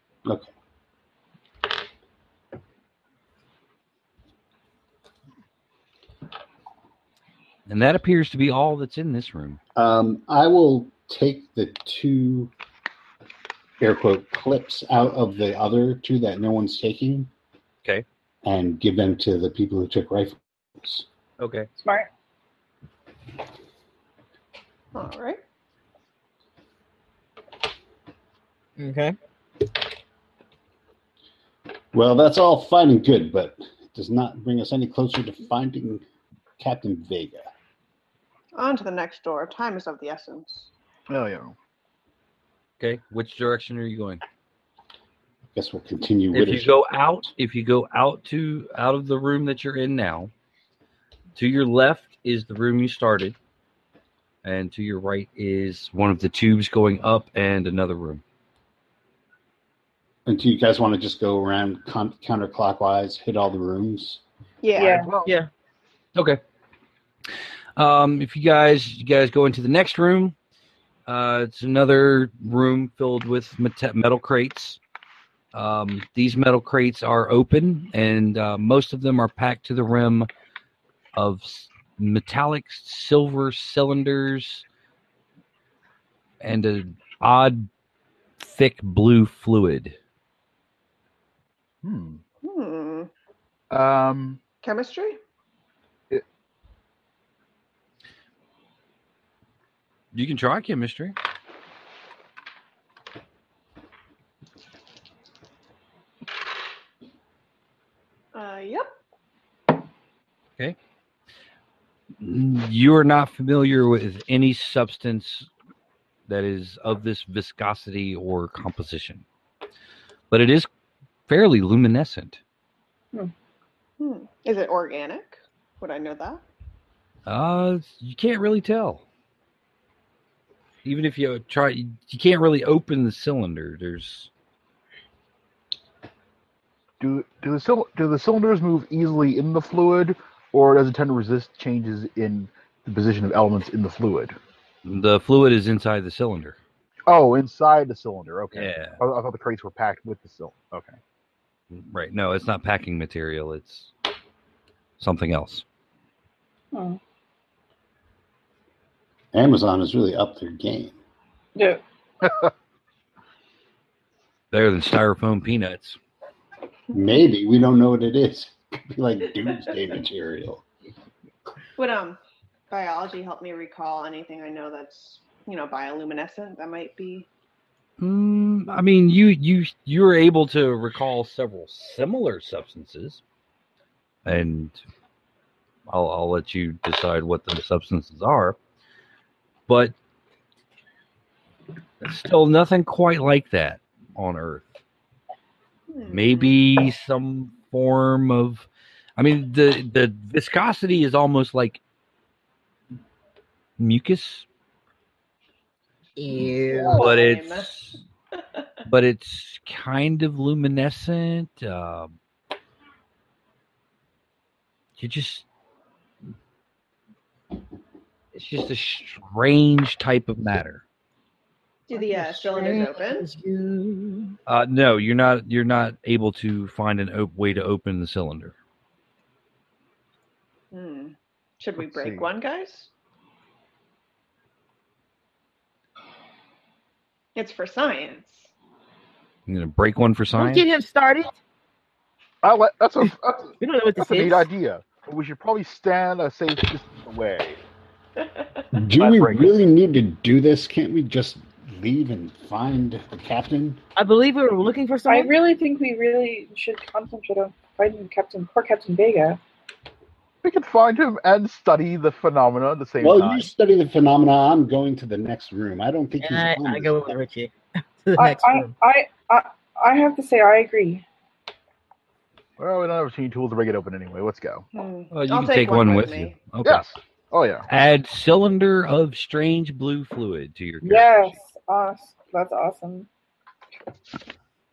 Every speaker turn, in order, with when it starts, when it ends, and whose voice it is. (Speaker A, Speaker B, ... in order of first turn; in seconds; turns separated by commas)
Speaker A: 0.2-0.5, Speaker B: 7.7-9.6, Speaker A: 9.7-12.5, Speaker A: 13.8-17.3, Speaker A: 18.4-21.0, Speaker B: 21.4-21.7, Speaker C: 21.8-22.1, Speaker D: 24.9-25.4, Speaker E: 28.8-29.1, Speaker A: 31.9-36.0, Speaker A: 36.6-37.5, Speaker D: 38.5-40.7, Speaker F: 41.1-41.5, Speaker B: 42.8-44.2, Speaker A: 45.5-46.8, Speaker B: 46.3-50.3, Speaker B: 51.3-53.4, Speaker B: 54.4-58.2, Speaker A: 60.2-64.2, Speaker D: 64.6-65.0, Speaker C: 64.8-65.1, Speaker F: 64.9-65.3, Speaker B: 67.8-70.3, Speaker B: 71.1-74.8, Speaker B: 75.5-80.3, Speaker B: 81.1-84.6, Speaker B: 86.4-87.7, Speaker B: 88.4-90.0, Speaker F: 91.8-92.2, Speaker D: 92.4-93.1, Speaker F: 93.7-94.4, Speaker D: 94.6-95.2, Speaker B: 100.1-101.2, Speaker D: 108.3-108.9, Speaker B: 112.2-115.5, Speaker B: 116.3-119.2, Speaker B: 120.3-120.7, Speaker B: 121.3-122.4, Speaker D: 124.0-126.4, Speaker B: 127.2-129.0, Speaker B: 130.8-134.3, Speaker F: 137.0-144.3, Speaker B: 144.8-146.6, Speaker F: 147.1-151.0, Speaker B: 148.5-149.0, Speaker B: 151.7-153.9, Speaker B: 155.0-155.6, Speaker C: 156.7-157.0, Speaker A: 159.3-161.0, Speaker C: 161.6-161.8, Speaker F: 162.2-162.5, Speaker B: 164.5-166.0, Speaker A: 166.9-170.6, Speaker D: 171.8-172.2, Speaker D: 172.7-177.3, Speaker B: 178.0-183.2, Speaker B: 184.2-184.8, Speaker B: 185.9-188.6, Speaker B: 189.7-189.9, Speaker B: 192.0-194.7, Speaker D: 195.9-196.6, Speaker B: 196.1-201.8, Speaker B: 203.8-204.4, Speaker E: 206.2-207.1, Speaker D: 206.4-207.8, Speaker B: 206.9-208.0, Speaker B: 208.8-212.2, Speaker B: 215.0-215.4, Speaker B: 218.3-220.8, Speaker D: 221.9-223.3, Speaker E: 221.9-224.3, Speaker B: 224.4-228.5, Speaker D: 230.7-232.9, Speaker F: 231.8-232.2, Speaker D: 237.3-238.5, Speaker B: 239.5-240.7, Speaker E: 240.3-241.3, Speaker F: 242.4-247.6, Speaker E: 243.0-244.5, Speaker A: 248.7-253.8, Speaker F: 248.9-249.5, Speaker E: 253.9-255.3, Speaker C: 255.1-259.4, Speaker F: 260.4-263.5, Speaker A: 263.0-267.1, Speaker E: 266.2-268.7, Speaker C: 268.1-271.0, Speaker F: 272.6-274.6, Speaker D: 274.7-276.4, Speaker B: 275.1-276.8, Speaker F: 276.6-277.6, Speaker B: 277.7-281.3, Speaker C: 280.8-283.1